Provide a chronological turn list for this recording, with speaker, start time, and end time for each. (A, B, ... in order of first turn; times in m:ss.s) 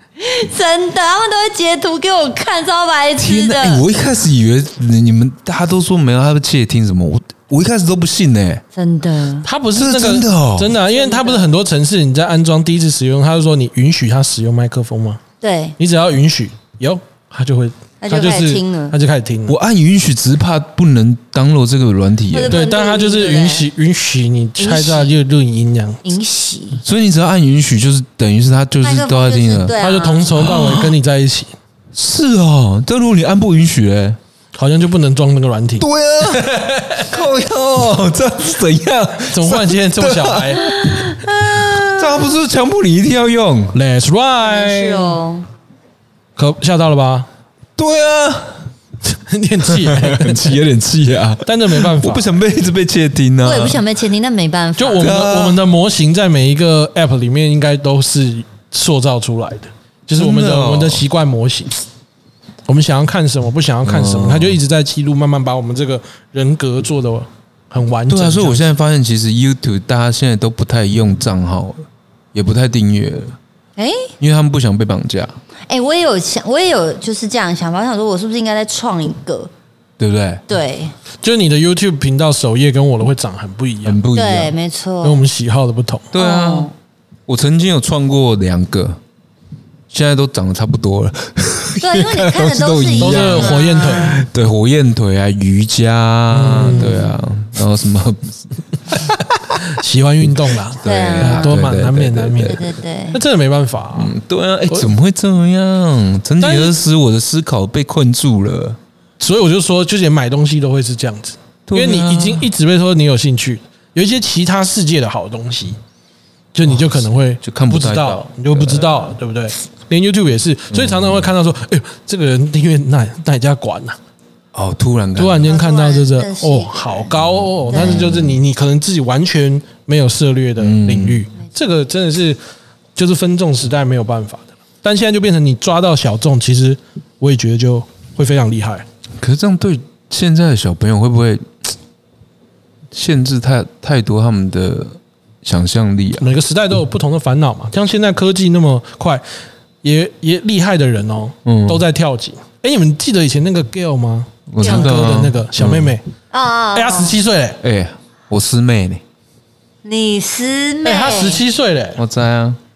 0:00.2-0:03.8 A
0:03.2-0:08.6 B
0:08.7-0:09.5 A
0:09.4-0:15.2 C
0:09.7-0:10.7 B
0:10.9-0:11.5 A
0:15.4-0:15.7 A
0:15.8-0:19.6 C
0:18.0-0:19.0 A
0:19.5-0:22.6 B
0:22.3-0:23.7 A
0:22.5-0:26.0 C
0:24.6-0:25.1 A
0:26.0-0:26.8 A
0:26.8-0:29.7 B
0:28.8-0:30.4 A
0:29.8-0:31.5 C
0:30.4-0:30.9 B
0:31.9-0:34.2 B
0:34.6-0:37.1 C
0:35.8-0:43.8 B
0:39.3-0:40.6 C
0:40.6-0:42.3 A
0:43.7-0:45.2 C
0:44.4-0:45.5 A
0:46.4-0:47.3 C
0:47.8-0:48.6 B
0:49.0-0:50.6 C
0:49.7-0:53.8 B
0:51.4-0:52.4 C
0:53.4-0:55.1 A
0:54.8-1:01.8 C
0:55.0-0:55.6 B
1:00.2-1:01.0 B
1:02.7-1:08.7 C
1:03.8-1:04.6 B
1:08.1-1:13.4 B
1:13.8-1:14.1 A
1:14.2-1:15.4 B
1:15.7-1:19.5 A
1:20.0-1:20.4 B
1:20.5-1:20.9 A
1:21.2-1:24.0 C
1:23.8-1:24.5 B
1:24.1-1:25.2 A
1:25.0-1:26.1 C
1:26.1-1:26.7 B
1:26.2-1:26.7 A
1:27.3-1:29.0 B
1:29.9-1:39.0 B
1:31.8-1:34.2 A
1:33.0-1:34.2 C
1:36.3-1:37.0 C
1:36.6-1:37.2 A
1:38.9-1:44.1 C
1:40.8-1:42.7 B
1:40.8-1:41.6 A
1:42.4-1:43.2 A
1:44.0-1:48.8 B
1:46.4-1:46.7 C
1:49.2-1:55.8 C
1:51.7-1:52.4 B
1:56.5-2:04.0 C
1:57.4-1:58.9 B
2:00.7-2:01.2 B
2:04.5-2:05.5 B
2:05.2-2:12.4 C
2:05.5-2:07.1 A
2:07.7-2:08.1 A
2:07.7-2:08.4 B
2:10.6-2:11.2 B
2:13.0-2:18.8 C
2:19.2-2:21.7 B
2:22.9-2:26.3 B
2:26.2-2:29.2 C
2:29.8-2:36.0 C
2:31.4-2:31.8 B
2:34.5-2:35.9 B
2:34.6-2:34.9 A
2:36.3-2:37.1 A
2:36.7-2:37.6 C
2:37.6-2:39.0 B
2:39.8-2:41.4 A
2:40.8-2:42.0 C
2:42.0-2:42.6 B